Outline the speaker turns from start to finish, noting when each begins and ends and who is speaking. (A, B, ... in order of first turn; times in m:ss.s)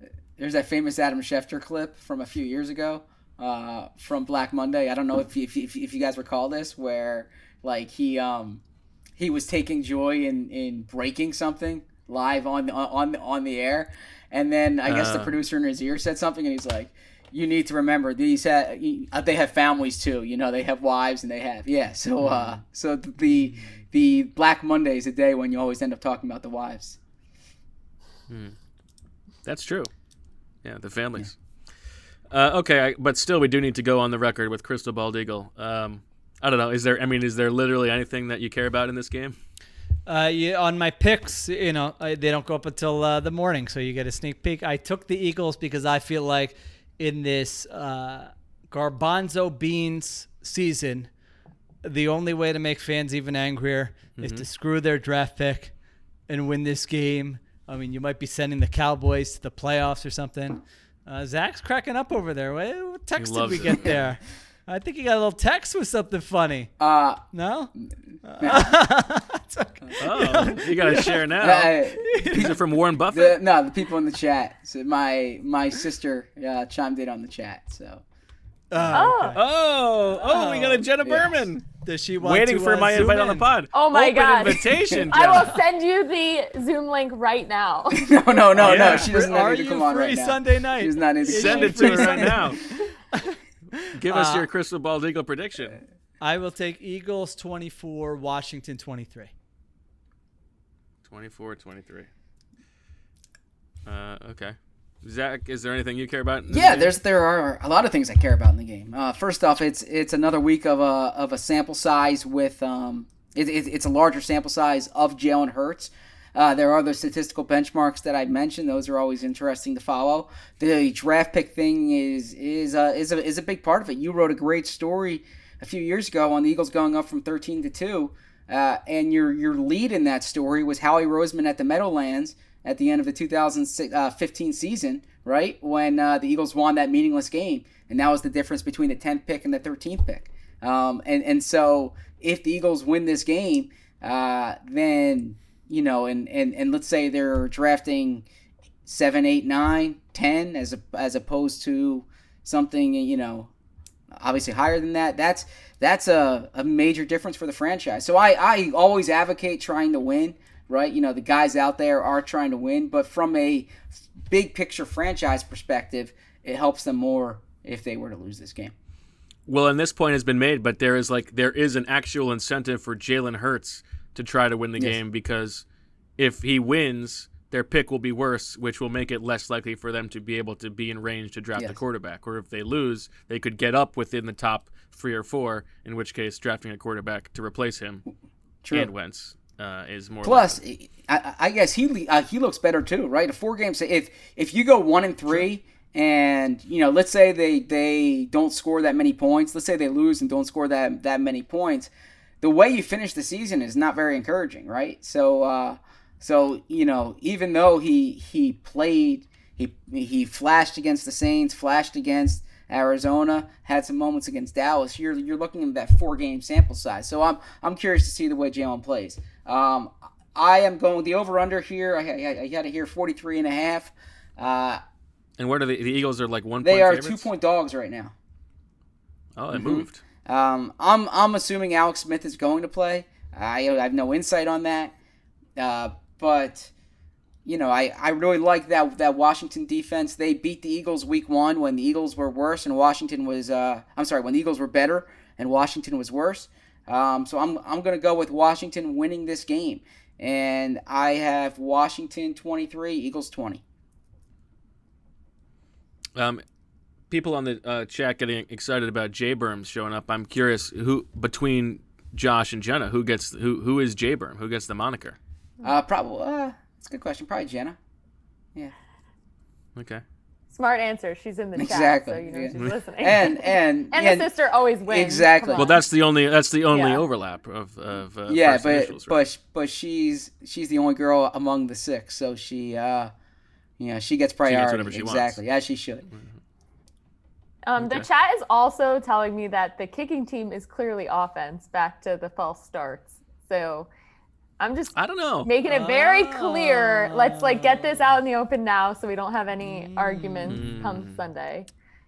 0:00.4-0:08.6 A
0:09.2-0:27.0 A
0:14.9-0:15.4 B
0:22.2-0:22.6 B
0:28.3-0:28.6 B
0:29.4-0:29.9 B
0:30.6-0:31.4 B
0:32.3-0:39.4 B
0:40.1-0:51.1 C
0:51.8-0:55.7 C
0:54.2-0:54.5 B
0:56.3-1:06.7 C
1:03.2-1:04.0 B
1:06.8-1:07.2 A
1:07.3-1:07.7 C
1:08.2-1:11.2 C
1:08.4-1:08.7 A
1:10.0-1:11.8 B
1:11.4-1:18.0 A
1:12.0-1:12.5 C
1:12.4-1:13.4 B
1:18.7-1:19.4 C
1:18.9-1:19.4 D
1:19.4-1:21.7 B
1:20.1-1:20.8 C
1:21.0-1:21.4 A
1:21.8-1:23.5 C
1:22.2-1:25.6 B
1:23.7-1:28.1 D
1:27.9-1:32.5 A
1:28.6-1:29.1 B
1:28.6-1:32.6 C
1:31.3-1:32.6 B
1:33.1-1:34.5 C
1:34.0-1:35.8 B
1:36.2-1:39.3 C
1:41.0-1:42.1 B
1:43.9-1:47.0 B
1:46.5-2:28.3 A
2:28.9-2:33.5 A
2:34.2-2:48.7 A
2:49.5-2:55.6 B
2:56.2-3:08.0 B
3:08.6-3:08.9 A
3:08.7-3:10.6 B
3:10.2-3:21.9 A
3:22.4-3:44.8 A
3:45.4-3:47.3 B
3:46.6-3:48.1 A
3:49.4-3:50.0 B
3:49.5-3:54.9 A
3:55.6-3:56.7 A
3:57.4-4:13.6 A
4:16.2-4:16.4 B
4:17.1-4:25.2 B
4:25.6-4:27.8 A
4:29.8-4:30.0 B
4:30.5-4:35.9 D
4:31.6-4:34.3 A
4:34.9-4:35.7 A
4:35.6-4:39.2 B
4:36.7-4:37.0 D
4:38.3-4:43.1 A
4:43.8-4:46.1 A
4:44.4-4:45.4 B
4:47.6-4:53.9 D
4:47.8-4:48.1 B
4:54.6-5:01.7 D
4:55.0-4:55.5 B
4:55.6-4:58.2 C
4:59.6-5:00.7 C
5:00.5-5:01.2 B